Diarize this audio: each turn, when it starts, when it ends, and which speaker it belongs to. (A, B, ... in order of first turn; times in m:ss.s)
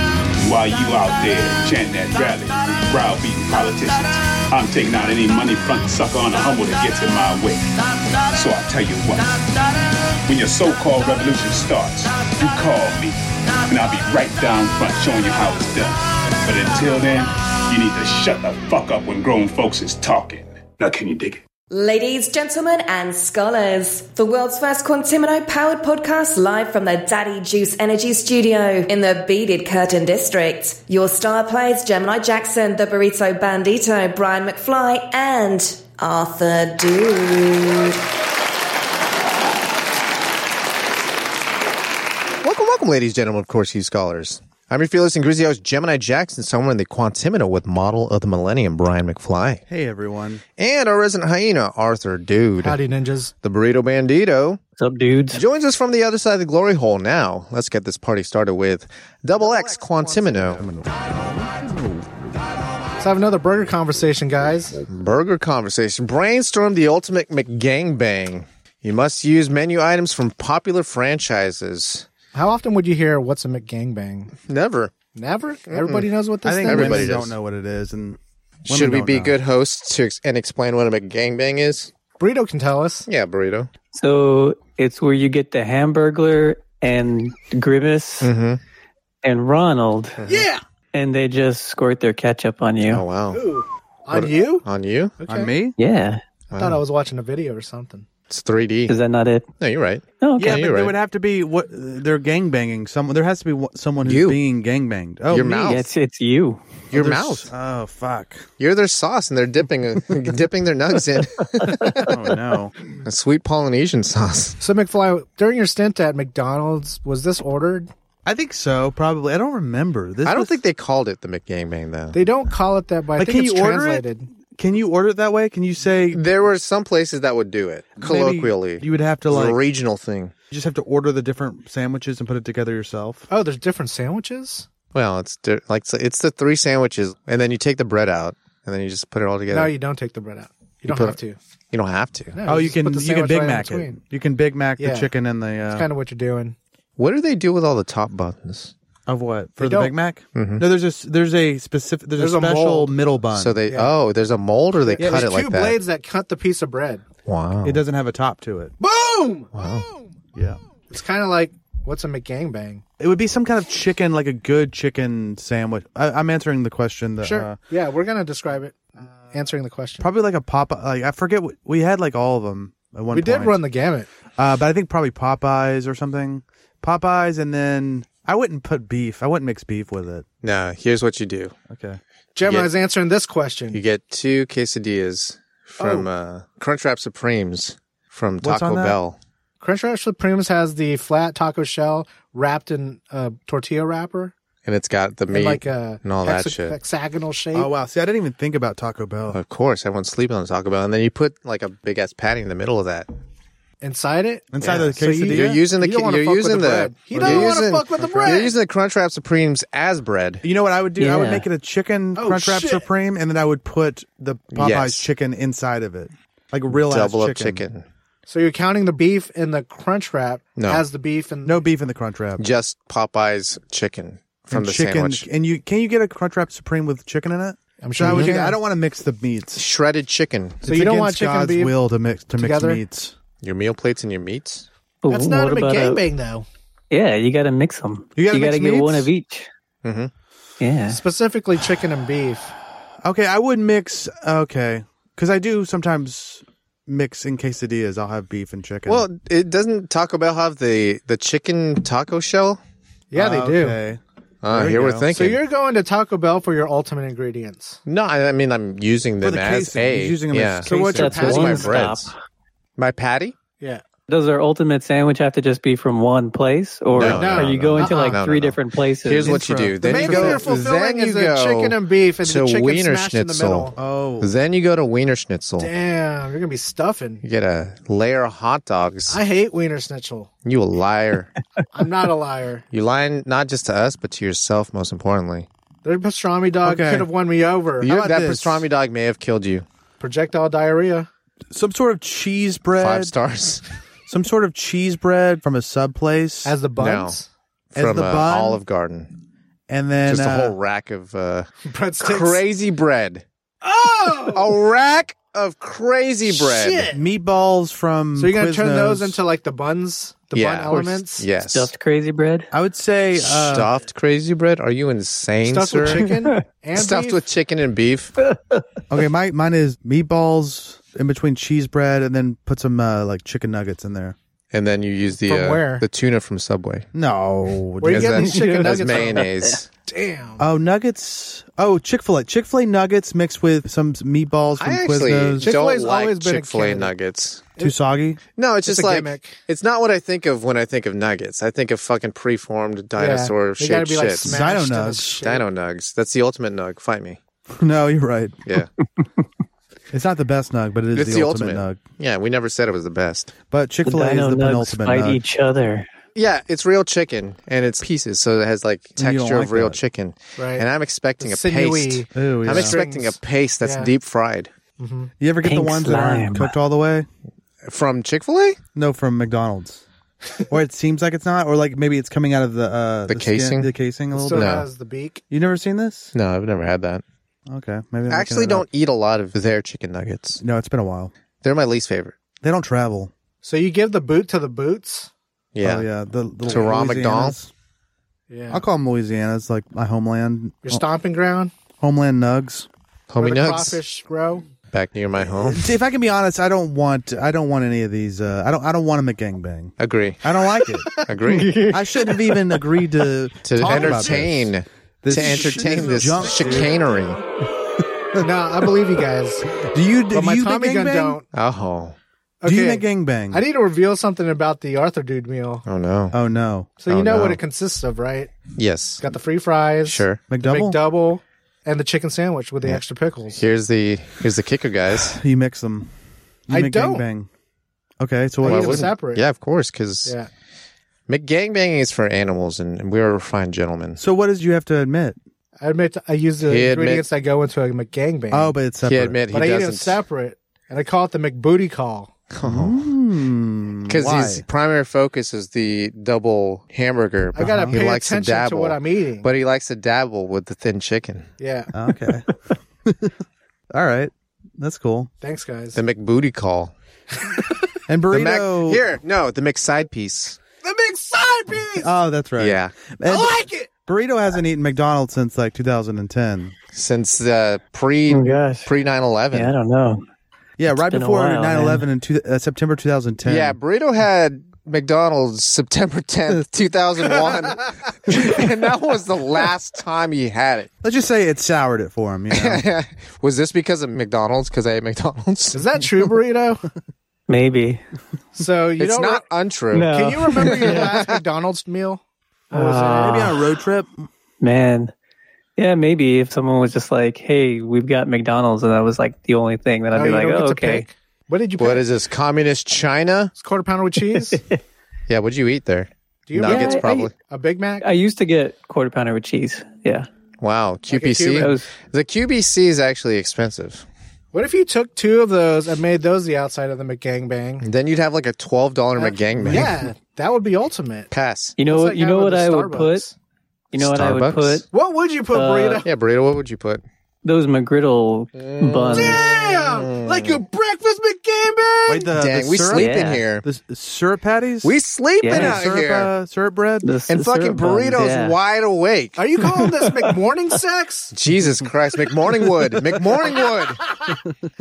0:00.4-0:07.7 A
0:08.2-0:09.7 A
0:10.2-0:21.4 A
0:21.7-0:38.0 B
0:42.4-0:49.6 C
0:49.7-0:50.4 D
0:50.6-0:52.8 C
0:52.6-0:53.3 E
0:53.4-0:54.6 C
0:54.8-0:55.4 F
0:55.3-1:00.7 C
1:00.5-1:02.6 D
1:03.0-1:04.8 E
1:04.9-1:12.1 C
1:12.3-1:14.3 E
1:14.4-1:14.9 C
1:15.2-1:17.2 E
1:15.7-1:16.1 C
1:16.4-1:19.4 D
1:16.6-1:17.3 C
1:18.7-1:21.9 C
1:22.2-1:23.1 E
1:23.1-1:23.7 C
1:23.9-1:28.3 F
1:28.2-1:28.6 C
1:29.2-1:30.2 F
1:30.2-1:30.4 C
1:30.3-1:30.6 E
1:30.9-1:33.0 F
1:32.9-1:33.4 C
1:33.3-1:34.7 E
1:34.1-1:35.2 C
1:35.2-1:35.5 E
1:35.3-1:35.8 D
1:35.8-1:36.2 F
1:36.5-1:36.8 C
1:36.6-1:38.0 E
1:38.3-1:39.0 C
1:38.9-1:39.5 F
1:39.6-1:41.0 C
1:40.2-1:40.7 F
1:40.4-1:45.8 D
1:44.0-1:44.4 C
1:45.3-1:45.8 C
1:45.7-1:46.6 F
1:46.9-1:48.5 D
1:46.9-1:47.5 C
1:48.6-1:52.3 C
1:52.0-1:52.8 D
1:53.0-1:54.6 C
1:54.6-1:57.9 E
1:58.3-2:00.6 D
2:00.2-2:02.2 C
2:02.1-2:04.3 E
2:03.2-2:06.2 D
2:06.1-2:10.3 C
2:08.0-2:09.6 D
2:10.5-2:13.3 D
2:13.3-2:14.7 E
2:14.9-2:19.7 C
2:19.5-2:21.4 E
2:20.9-2:21.2 C
2:21.7-2:22.4 C
2:22.3-2:24.0 E
2:22.4-2:25.9 D
2:24.8-2:25.1 E
2:25.7-2:26.6 E
2:27.0-2:28.7 C
2:29.1-2:33.6 D
2:29.6-2:29.9 E
2:30.4-2:30.6 C
2:32.2-2:33.0 E
2:33.4-2:35.8 C
2:34.8-2:37.0 E
2:35.0-2:35.3 D
2:37.3-2:37.8 C
2:37.6-2:38.7 D
2:38.8-2:40.1 E
2:39.6-2:39.9 C
2:40.4-2:40.6 D
2:40.9-2:42.8 E
2:43.0-2:47.6 D
2:47.2-2:50.1 E
2:50.0-2:53.6 D
2:53.1-2:54.1 E
2:54.4-3:00.3 D
3:00.4-3:01.5 C
3:01.7-3:02.0 D
3:02.4-3:03.8 E
3:02.4-3:02.7 C
3:03.7-3:09.2 C
3:05.8-3:06.1 E
3:08.4-3:09.0 D
3:09.6-3:14.3 E
3:14.6-3:16.8 C
3:15.3-3:17.7 E
3:17.5-3:19.4 D
3:19.3-3:23.1 C
3:23.8-3:28.5 E
3:24.5-3:25.6 D
3:24.6-3:30.4 C
3:27.1-3:28.5 D
3:30.4-3:37.7 D
3:31.0-3:31.4 F
3:32.2-3:32.9 E
3:34.5-3:35.1 C
3:36.7-3:37.8 C
3:38.3-3:41.6 E
3:40.6-3:40.8 C
3:41.4-3:42.5 D
3:42.4-3:45.2 C
3:44.5-3:49.6 D
3:47.8-3:48.6 E
3:48.0-3:48.3 C
3:49.6-3:50.6 C
3:50.6-3:51.8 E
3:50.6-3:53.2 D
3:52.3-3:52.8 E
3:53.4-3:54.7 C
3:55.0-3:56.0 F
3:55.1-3:56.5 E
3:56.9-3:59.5 F
3:58.2-3:59.1 D
3:59.8-4:00.1 C
4:00.6-4:01.0 F
4:00.9-4:02.5 E
4:03.0-4:09.1 D
4:08.9-4:12.6 C
4:13.1-4:13.8 E
4:13.1-4:15.1 D
4:14.4-4:15.4 C
4:15.1-4:17.8 E
4:17.9-4:22.1 C
4:19.2-4:21.9 D
4:20.6-4:21.7 E
4:20.8-4:22.1 F
4:22.8-4:23.4 C
4:24.1-4:29.5 F
4:26.9-4:35.7 C
4:27.0-4:28.2 E
4:29.2-4:30.5 D
4:29.8-4:33.8 E
4:33.8-4:34.3 D
4:35.6-4:37.2 E
4:37.2-4:39.2 C
4:39.1-4:40.3 E
4:40.4-4:41.3 C
4:41.7-4:42.6 E
4:42.7-4:45.5 C
4:45.8-4:48.6 E
4:46.6-4:47.1 D
4:47.8-4:49.6 C
4:47.8-4:48.4 D
4:50.0-4:51.1 E
4:51.5-4:53.2 D
4:52.8-4:53.6 C
4:54.1-4:56.6 D
4:56.4-4:57.3 E
4:56.8-4:57.2 C
4:57.7-4:59.1 C
4:57.8-4:58.6 D
4:59.7-5:00.6 D
5:00.1-5:03.2 C
5:01.6-5:02.4 E
5:03.6-5:04.6 E
5:04.3-5:06.9 C
5:06.3-5:07.0 E
5:06.9-5:09.2 D
5:08.2-5:11.2 E
5:10.3-5:11.7 C
5:10.7-5:11.0 D
5:11.4-5:12.5 F
5:12.5-5:13.7 D
5:13.2-5:16.1 C
5:15.4-5:17.2 E
5:16.8-5:18.2 C
5:18.3-5:18.6 F
5:18.9-5:24.2 D
5:24.5-5:26.9 C
5:25.2-5:25.8 E
5:26.9-5:28.6 D
5:27.8-5:29.3 E
5:27.9-5:29.7 C
5:28.3-5:29.6 F
5:29.9-5:30.4 E
5:30.4-5:35.5 D
5:34.6-5:37.5 C
5:35.4-5:36.9 E
5:37.6-5:38.2 D
5:38.4-5:44.4 C
5:38.7-5:39.4 E
5:43.0-5:45.4 E
5:44.2-5:45.2 D
5:45.2-5:47.2 C
5:47.5-5:48.4 D
5:49.9-5:51.8 D
5:50.9-5:53.4 C
5:53.5-5:55.2 D
5:53.9-5:55.9 F
5:56.2-6:04.5 C
5:59.0-5:59.8 D
6:00.4-6:00.6 E
6:01.2-6:03.9 E
6:02.2-6:02.8 D
6:04.8-6:05.1 E
6:05.2-6:07.1 D
6:05.4-6:06.5 F
6:07.6-6:08.6 C
6:08.8-6:09.8 D
6:10.5-6:14.6 D
6:13.1-6:13.7 C
6:14.1-6:15.2 E
6:14.3-6:14.7 C
6:15.3-6:16.1 D
6:16.1-6:17.0 C
6:17.5-6:18.7 D
6:18.1-6:20.4 C
6:20.4-6:21.1 D
6:21.4-6:22.2 C
6:22.4-6:23.1 D
6:23.4-6:25.1 E
6:25.6-6:25.9 C
6:25.6-6:27.5 D
6:26.5-6:26.7 E
6:26.5-6:27.4 C
6:28.3-6:28.6 E
6:28.5-6:30.8 D
6:30.6-6:31.5 E
6:31.8-6:32.7 D
6:33.1-6:33.8 C
6:33.2-6:34.4 E
6:34.7-6:35.7 C
6:35.4-6:40.9 D
6:39.8-6:40.2 C
6:41.0-6:41.6 C
6:41.2-6:42.8 F
6:41.7-6:46.9 D
6:43.4-6:47.2 C
6:43.7-6:44.3 E
6:48.2-6:49.6 E
6:49.6-6:51.2 D
6:50.1-6:51.2 E
6:51.3-6:52.0 C
6:52.4-6:55.6 E
6:52.4-6:53.4 D
6:55.6-6:56.2 C
6:56.1-6:56.7 D
6:56.8-6:58.3 E
6:56.9-6:57.4 C
6:58.6-6:59.0 C
6:59.0-7:03.4 E
6:59.8-7:00.2 C
7:00.3-7:00.8 D
7:03.3-7:05.2 C
7:04.9-7:05.9 D
7:06.5-7:07.3 D
7:06.5-7:07.0 E
7:08.0-7:08.9 D
7:08.4-7:09.2 E
7:08.4-7:10.1 C
7:11.1-7:14.0 C
7:14.0-7:15.2 D
7:15.6-7:18.6 E
7:16.5-7:17.1 C
7:18.3-7:19.2 D
7:18.8-7:20.0 C
7:19.3-7:22.1 E
7:22.3-7:22.9 C
7:22.4-7:24.4 D
7:23.9-7:31.3 C
7:27.4-7:29.3 E
7:27.4-7:27.8 D
7:31.4-7:31.7 E
7:31.7-7:32.3 D
7:32.8-7:33.2 D
7:33.7-7:35.1 D
7:35.2-7:35.8 E
7:35.8-7:36.7 C
7:37.9-7:38.8 D
7:38.1-7:40.4 C
7:40.6-7:41.9 E
7:41.8-7:46.5 D
7:42.4-7:42.8 C
7:43.1-7:43.7 E
7:46.7-7:49.5 C
7:48.1-7:48.7 F
7:49.3-7:50.0 F
7:50.6-7:53.6 D
7:50.9-7:51.8 F
7:53.2-8:00.7 C
8:00.8-8:02.6 D
8:02.3-8:05.7 C
8:05.5-8:06.6 E
8:07.3-8:07.8 F
8:08.4-8:13.3 E
8:08.8-8:11.1 C
8:09.7-8:10.8 F
8:12.5-8:13.4 F
8:12.6-8:13.9 D
8:14.4-8:14.9 F
8:15.6-8:20.8 F
8:19.9-8:21.8 E
8:21.6-8:23.3 C
8:23.4-8:24.4 E
8:24.3-8:24.6 F
8:25.1-8:27.1 C
8:26.3-8:27.9 E
8:26.5-8:26.9 F
8:27.8-8:30.1 F
8:30.4-8:33.8 C
8:30.9-8:31.5 E
8:31.4-8:31.7 F
8:34.3-8:37.7 E
8:37.6-8:39.7 C
8:39.0-8:41.1 E
8:39.3-8:39.8 D
8:41.1-8:41.6 C
8:41.6-8:43.0 F
8:41.6-8:43.1 E
8:43.7-8:44.7 F
8:43.8-8:44.6 C
8:44.7-8:45.9 E
8:45.3-8:45.8 F
8:45.8-8:46.8 C
8:47.2-8:49.2 F
8:48.4-8:50.4 C
8:48.9-8:52.1 E
8:51.9-8:54.8 D
8:52.1-8:53.4 C
8:52.7-8:53.2 F
8:54.6-8:56.1 C
8:55.2-8:55.6 F
8:55.3-8:56.9 D
8:56.8-8:58.4 F
8:57.1-8:59.2 C
8:59.2-9:01.1 E
9:01.1-9:03.8 C
9:03.3-9:04.2 E